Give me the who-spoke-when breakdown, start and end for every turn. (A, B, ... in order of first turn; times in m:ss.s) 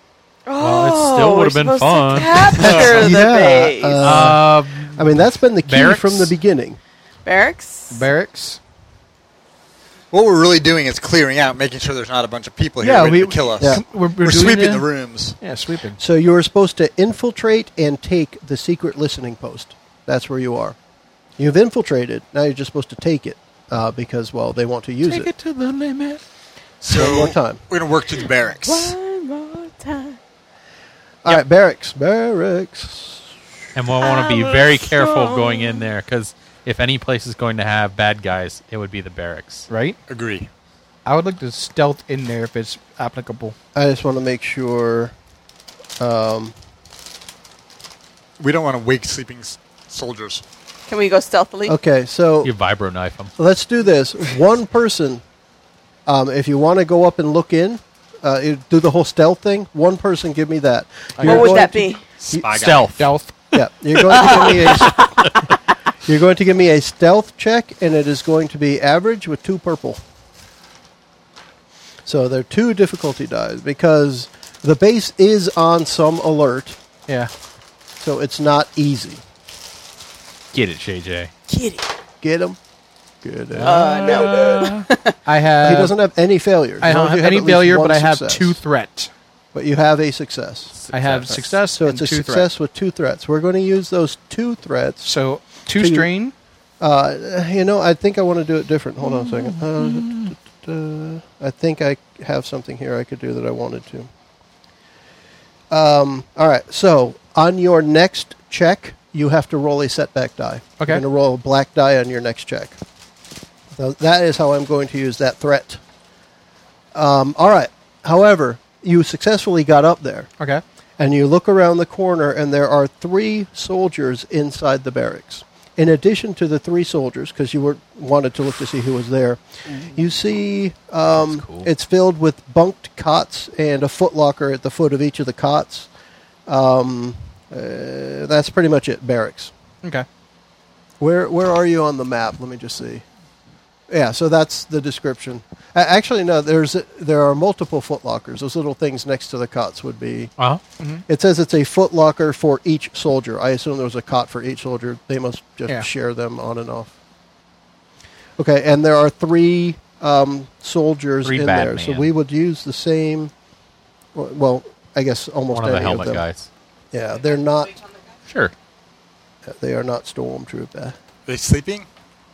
0:00.5-0:04.3 A
0:00.6-0:03.2 B
0:02.6-0:06.8 C
0:04.0-0:06.3 B
0:07.2-0:08.0 A
0:07.9-0:08.6 D
0:10.1-0:15.4 E
0:12.8-0:14.9 D
0:15.4-0:16.0 D
0:16.0-0:20.8 C
0:21.4-0:25.3 C
0:25.0-0:26.2 D
0:26.8-0:29.0 E
0:26.9-0:27.6 C
0:28.6-0:30.2 A
0:31.2-0:33.3 C
0:33.7-0:39.7 B
0:34.0-0:35.9 A
0:39.7-0:40.0 D
0:40.1-0:40.5 E
0:41.0-0:43.6 D
0:43.7-0:45.1 C
0:46.0-0:46.5 C
0:48.4-0:50.4 E
0:50.9-0:51.8 A
0:51.6-0:52.5 C
0:52.4-0:53.3 B
0:53.4-0:55.2 C
0:56.0-1:02.4 C
1:01.2-1:01.6 D
1:01.2-1:02.0 A
1:02.2-1:02.9 E
1:02.5-1:03.1 B
1:03.0-1:03.3 D
1:03.5-1:05.3 C
1:04.1-1:05.1 A
1:04.2-1:05.3 B
1:06.0-1:10.0 C
1:12.0-1:16.8 C
1:18.0-1:19.2 C
1:20.5-1:21.3 B
1:21.5-1:21.9 A
1:22.2-1:22.6 C
1:23.2-1:24.2 C
1:23.5-1:24.9 B
1:23.6-1:25.1 A
1:25.2-1:26.0 D
1:25.6-1:28.6 C
1:26.8-1:29.1 D
1:29.5-1:30.8 C
1:30.7-1:31.4 B
1:30.9-1:32.5 D
1:31.7-1:35.1 C
1:35.0-1:36.3 D
1:35.7-1:36.1 C
1:36.8-1:44.1 C
1:39.1-1:40.3 B
1:45.7-1:52.8 C
1:53.7-1:55.8 C
1:56.9-2:00.3 C
2:01.0-2:15.9 C
2:11.2-2:11.7 B
2:16.5-2:19.5 C
2:21.0-2:23.0 C
2:23.9-2:30.3 C
2:30.8-2:31.0 D
2:31.1-2:36.9 C
2:38.4-2:43.3 C
2:41.2-2:42.1 B
2:44.1-2:46.2 C
2:45.5-2:46.5 B
2:46.9-2:47.8 C
2:48.3-2:48.5 B
2:49.4-2:51.0 C
2:51.3-2:51.9 E